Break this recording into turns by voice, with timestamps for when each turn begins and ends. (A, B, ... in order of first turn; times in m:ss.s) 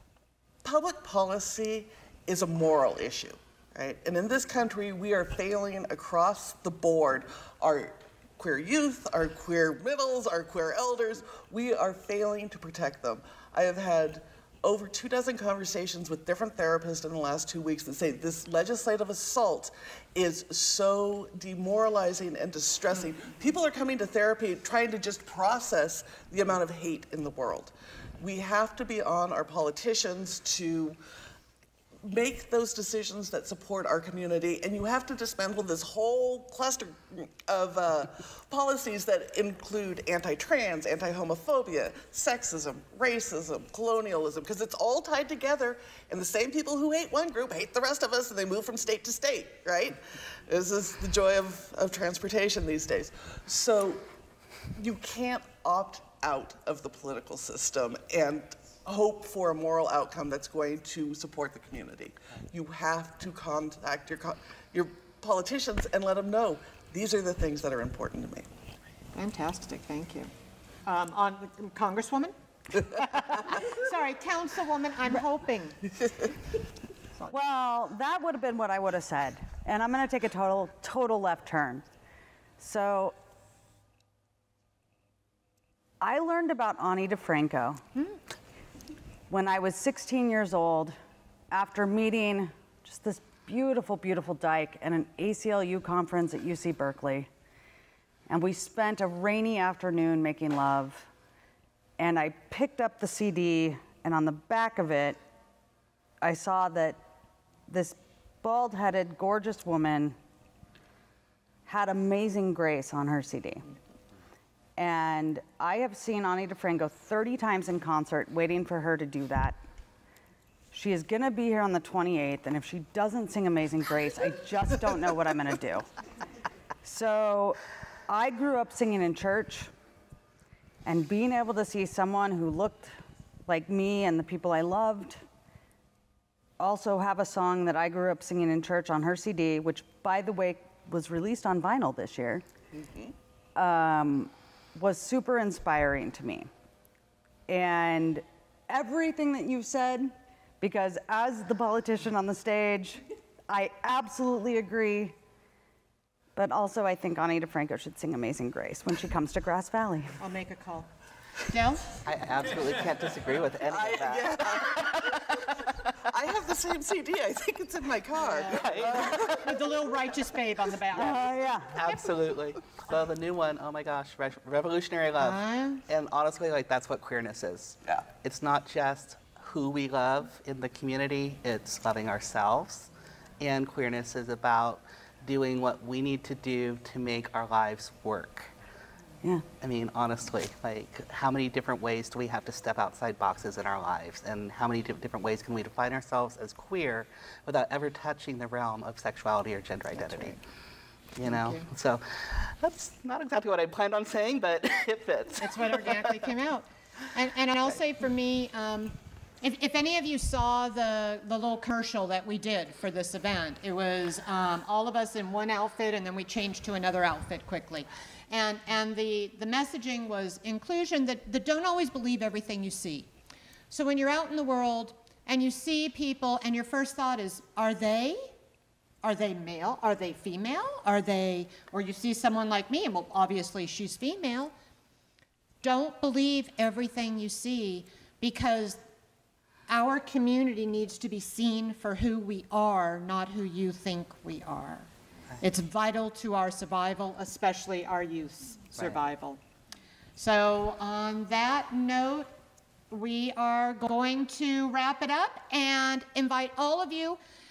0:00.6-0:31.0 A
0:32.0-0:54.0 A
0:54.7-1:08.5 A
1:09.1-1:10.3 B
1:10.8-1:15.8 B
1:17.3-1:21.8 C
1:22.6-1:23.2 C
1:26.0-1:27.8 C
1:29.3-1:31.0 C
1:31.5-1:37.3 C
1:38.3-1:41.1 C
1:42.0-1:45.2 C
1:46.2-1:47.0 C
1:47.7-1:50.2 C
1:51.6-1:53.6 C
1:54.8-1:59.6 C
2:00.7-2:05.9 C
2:06.8-2:09.7 C
2:10.8-2:13.0 C
2:13.5-2:15.2 C
2:16.6-2:22.4 C
2:22.7-2:23.1 A
2:23.5-2:26.5 C
2:27.5-2:35.2 C
2:36.4-2:40.2 C
2:40.2-2:40.9 B
2:41.5-2:41.9 B
2:42.0-2:45.2 D
2:43.7-2:49.6 A
2:48.1-2:51.5 B
2:48.5-2:49.3 D
2:50.9-2:51.8 C
2:51.7-3:08.5 D
2:55.2-2:55.8 B
3:09.6-3:20.4 D
3:21.2-3:26.1 D
3:21.2-3:21.6 B
3:25.4-3:43.1 B
3:43.7-3:48.3 B
3:49.0-3:54.5 B
3:55.6-3:58.8 B
3:59.7-4:04.9 B
4:05.4-4:09.4 B
4:10.2-4:12.3 B
4:12.9-4:17.2 B